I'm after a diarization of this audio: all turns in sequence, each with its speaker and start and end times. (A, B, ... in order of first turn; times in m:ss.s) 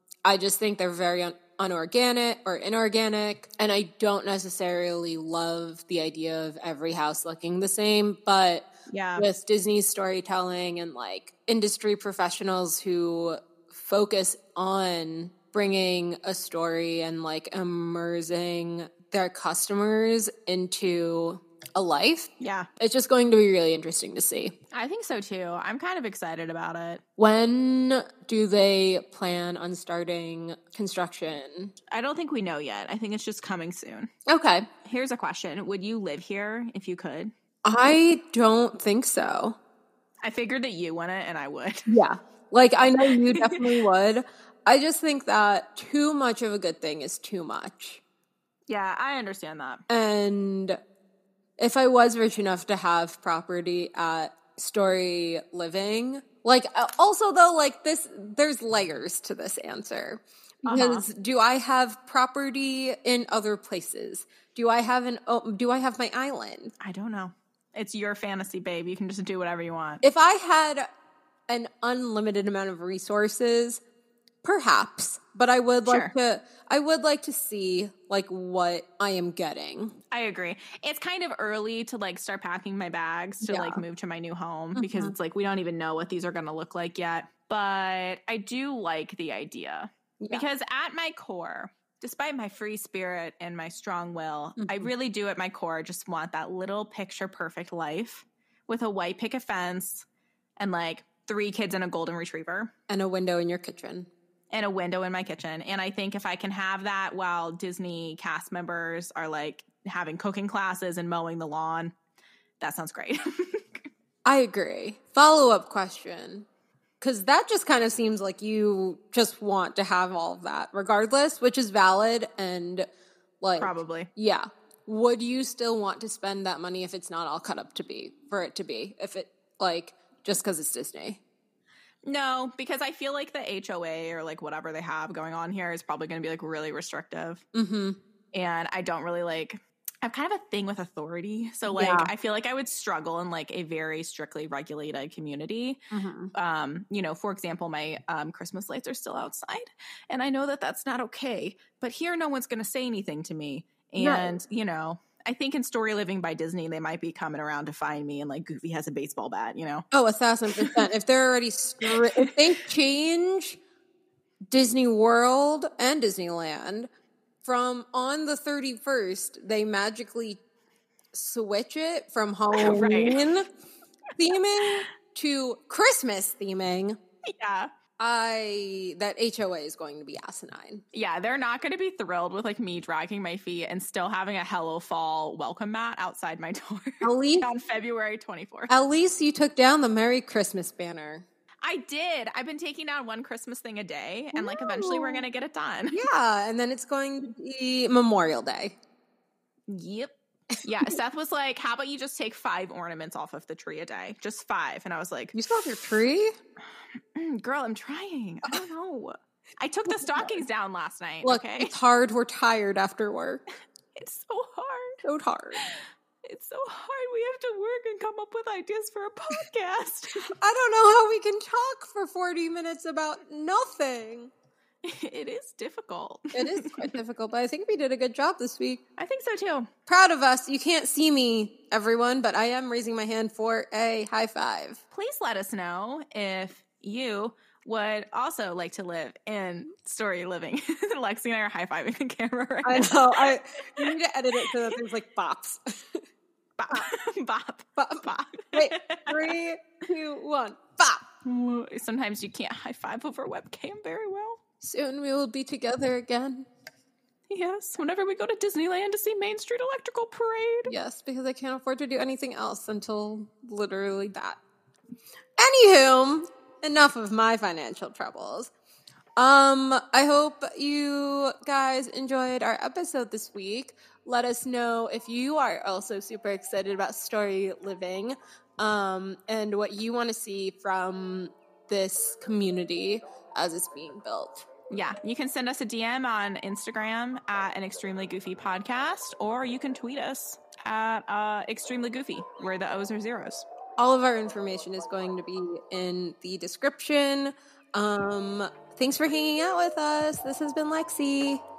0:00.2-0:24.6 A
0:08.9-0:09.3 B
0:22.4-0:22.7 B
0:24.7-0:27.0 B
0:27.2-0:31.7 A
0:31.9-0:34.1 B
0:34.3-0:34.7 A
0:34.8-0:37.3 B
0:37.6-0:39.6 A
0:40.2-0:41.9 B
0:41.9-0:48.0 A
0:43.0-0:43.7 B
0:48.7-0:49.8 B
0:49.9-0:50.8 A
0:51.6-1:06.7 A
1:00.6-1:01.0 B
1:06.8-1:10.0 B
1:10.0-1:10.9 A
1:11.5-1:13.8 A
1:14.4-1:20.0 A
1:15.9-1:16.1 B
1:20.1-1:40.1 B
1:23.4-1:23.8 A
1:24.8-1:25.2 A
1:30.2-1:30.5 A
1:34.6-1:34.9 A
1:40.6-1:42.7 B
1:42.9-1:44.1 A
1:44.5-1:51.9 B
1:52.6-1:53.9 B
1:54.2-1:56.5 A
1:57.0-2:02.9 A
2:03.4-2:11.2 A
2:03.6-2:04.1 B
2:12.0-2:17.4 B
2:17.5-2:18.0 A
2:18.3-2:25.8 B
2:21.7-2:22.1 A
2:25.9-2:26.3 A
2:26.3-2:39.8 B
2:34.0-2:34.4 A
2:39.9-2:43.6 A
2:41.8-2:42.3 B
2:44.5-2:46.9 A
2:47.4-2:50.4 A
2:51.1-2:53.5 A
2:52.5-2:53.3 B
2:54.2-2:57.0 A
2:57.3-2:57.7 B
2:58.0-3:00.8 A
3:00.9-3:08.7 B
3:07.0-3:07.5 A
3:08.7-3:11.2 A
3:11.6-3:16.0 B
3:14.3-3:15.3 A
3:15.9-3:18.8 A
3:19.7-3:25.4 B
3:25.3-3:26.4 A
3:27.0-3:31.7 B
3:29.9-3:30.4 A
3:31.2-3:33.4 A
3:34.0-3:35.0 B
3:35.0-3:35.6 A
3:35.6-3:40.3 B
3:40.4-3:44.3 A
3:44.8-3:47.0 B
3:46.3-3:48.8 A
3:49.0-3:49.7 B
3:49.9-3:54.8 A
3:54.9-4:04.8 B
4:02.6-4:06.0 A
4:06.6-4:09.4 B
4:07.8-4:11.0 A
4:11.2-4:14.4 B
4:14.6-4:16.5 A
4:17.3-4:20.7 B
4:20.7-4:24.4 A
4:25.4-4:28.5 A
4:29.2-4:44.4 A
4:44.7-4:53.4 B
4:53.8-5:01.4 A